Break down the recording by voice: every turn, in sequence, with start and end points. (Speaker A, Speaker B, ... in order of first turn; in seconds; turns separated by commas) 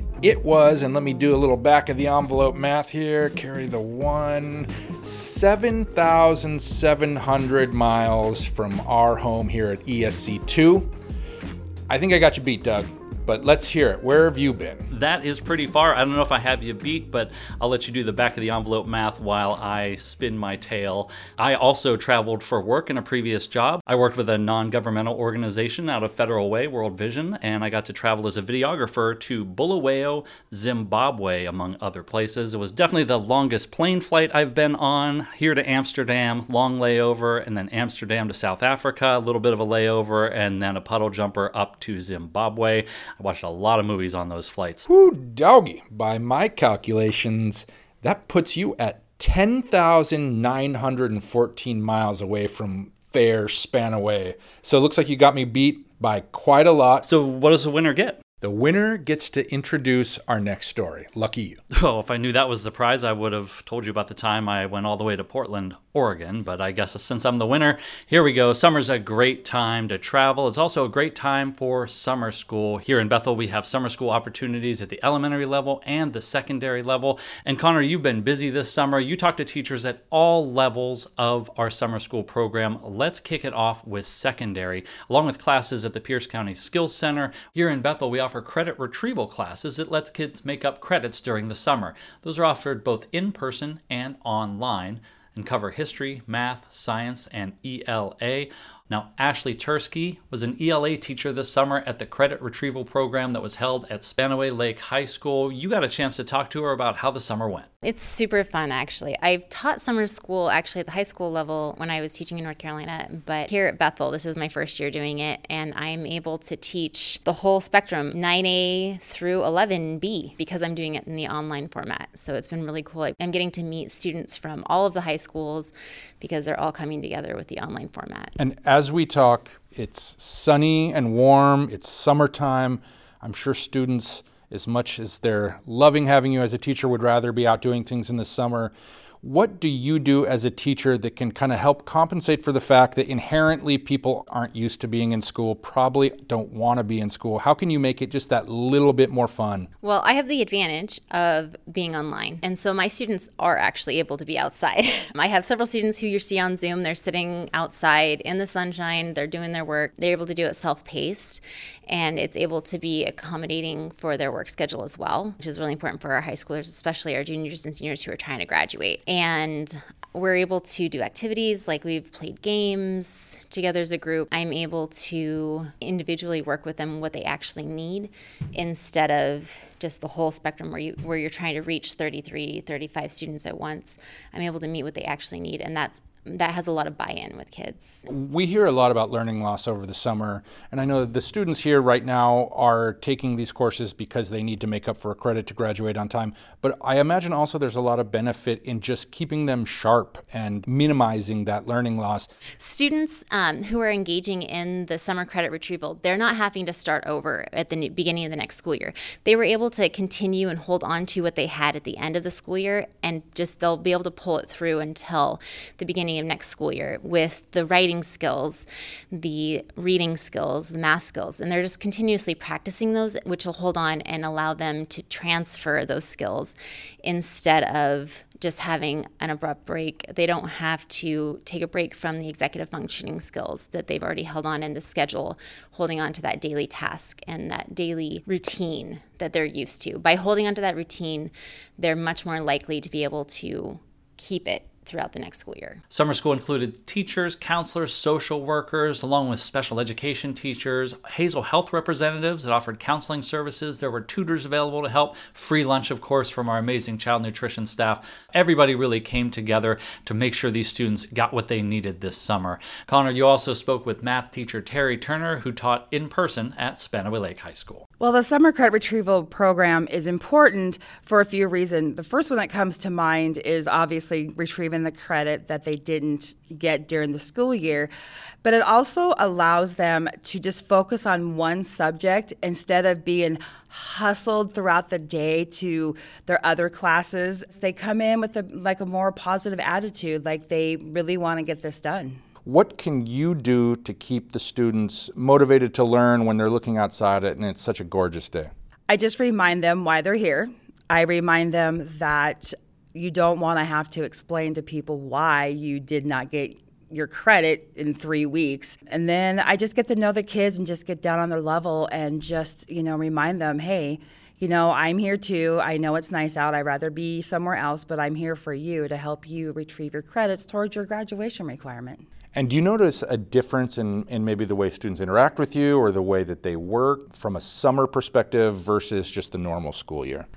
Speaker A: 0.2-10.9, Speaker A: 11.9-14.9, Speaker B: 14.9-44.9, Speaker A: 44.9-57.0, Speaker B: 57.0-58.2, Speaker A: 58.4-61.6, Speaker B: 61.8-107.7, Speaker C: 107.8-128.3, Speaker A: 128.4-149.7, Speaker C: 149.8-188.0, Speaker A: 188.1-202.3, Speaker C: 202.6-245.8, Speaker B: 245.9-267.9, Speaker D: 268.0-277.9, Speaker D: 278.4-292.2, Speaker A: 292.4-298.5, Speaker D: 298.9-322.1, Speaker A: 322.4-330.3